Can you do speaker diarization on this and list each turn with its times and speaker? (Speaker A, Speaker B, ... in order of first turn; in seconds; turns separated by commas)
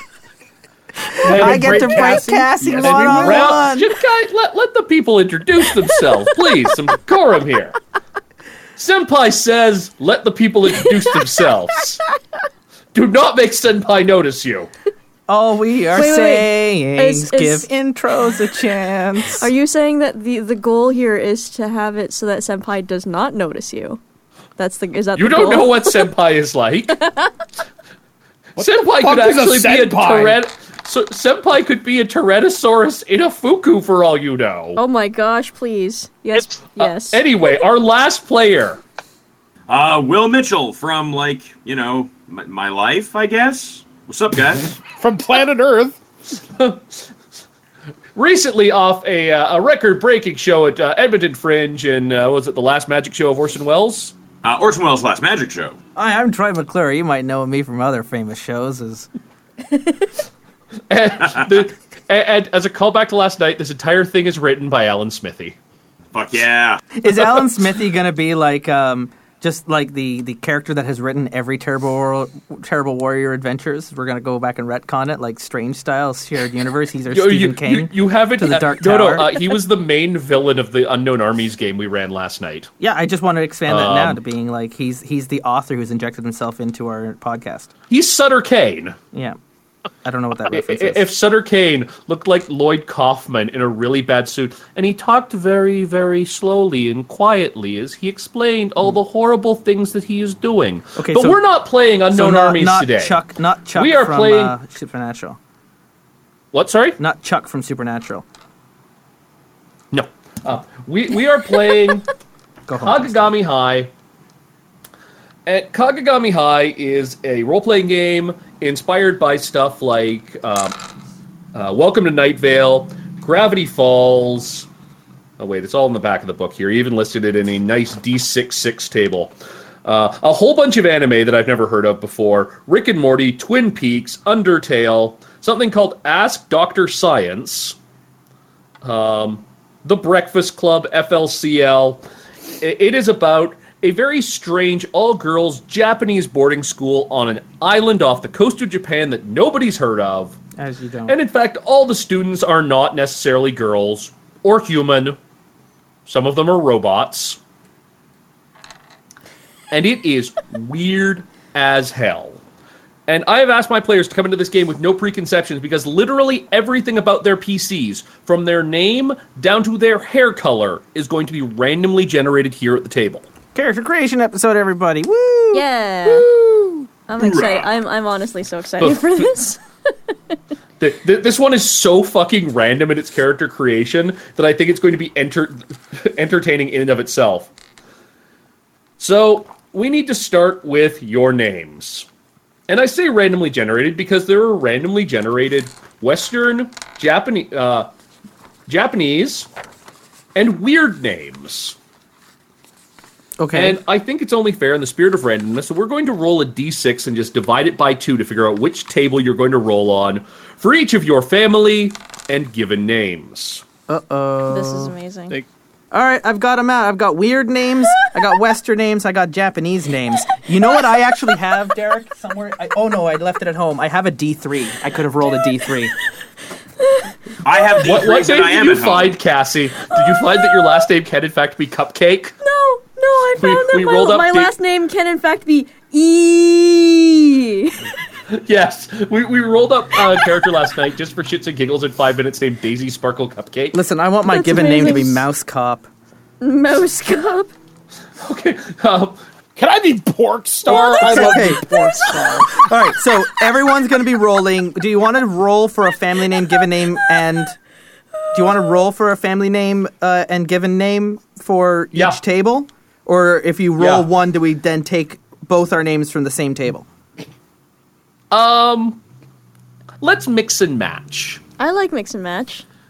Speaker A: 1.2-3.3, Speaker B: 1.2-7.8, Speaker C: 1.3-3.9, Speaker D: 2.9-3.4, Speaker B: 8.8-12.0, Speaker B: 12.9-14.7, Speaker C: 15.3-19.5, Speaker D: 15.9-17.7, Speaker D: 19.2-24.0, Speaker D: 24.6-26.1, Speaker B: 25.2-27.0, Speaker A: 28.6-30.4, Speaker B: 28.6-34.8, Speaker D: 34.8-37.2, Speaker B: 36.8-38.8, Speaker E: 39.7-44.8, Speaker A: 44.9-46.0, Speaker B: 46.6-47.0, Speaker B: 48.2-54.1, Speaker E: 54.4-55.8, Speaker C: 56.0-59.1, Speaker B: 60.9-65.6, Speaker E: 66.1-66.8, Speaker C: 67.0-79.4, Speaker B: 77.1-82.7, Speaker C: 82.8-87.7, Speaker B: 83.7-84.2, Speaker B: 87.9-89.0, Speaker C: 89.1-89.4, Speaker C: 90.0-91.1, Speaker B: 90.5-103.2, Speaker C: 101.0-101.4, Speaker C: 102.1-105.4, Speaker B: 103.8-104.6, Speaker B: 106.5-107.0, Speaker C: 107.0-108.2, Speaker B: 109.9-112.1, Speaker C: 112.7-113.3, Speaker B: 112.7-113.9, Speaker B: 115.5-120.8, Speaker B: 121.5-124.7, Speaker B: 125.4-137.8, Speaker B: 138.8-142.0, Speaker B: 142.6-150.4, Speaker C: 150.6-151.2, Speaker B: 151.1-155.2, Speaker B: 156.1-157.4, Speaker B: 159.7-162.4, Speaker B: 163.1-173.3, Speaker C: 173.6-176.7, Speaker D: 175.5-176.3, Speaker D: 177.1-179.6, Speaker E: 177.2-177.7, Speaker B: 178.8-179.3, Speaker B: 180.8-187.5, Speaker B: 189.0-192.1, Speaker B: 192.7-197.9, Speaker B: 198.7-199.5, Speaker B: 200.3-201.8, Speaker C: 203.4-203.8, Speaker B: 203.5-213.6, Speaker C: 213.9-214.9, Speaker D: 214.5-215.4, Speaker C: 215.9-225.9, Speaker E: 227.4-229.1, Speaker B: 227.8-232.3, Speaker D: 229.9-230.8, Speaker D: 232.4-237.9, Speaker B: 233.4-234.5, Speaker B: 238.3-243.8, Speaker C: 243.7-245.9, Speaker D: 244.3-245.2, Speaker D: 246.4-247.5, Speaker B: 248.2-249.2, Speaker A: 249.6-252.6, Speaker D: 250.7-252.5, Speaker C: 250.9-251.6, Speaker C: 252.5-257.6, Speaker C: 258.3-266.9, Speaker B: 261.9-262.2, Speaker B: 263.8-264.1, Speaker B: 268.3-269.0, Speaker B: 270.0-271.4, Speaker D: 271.6-272.7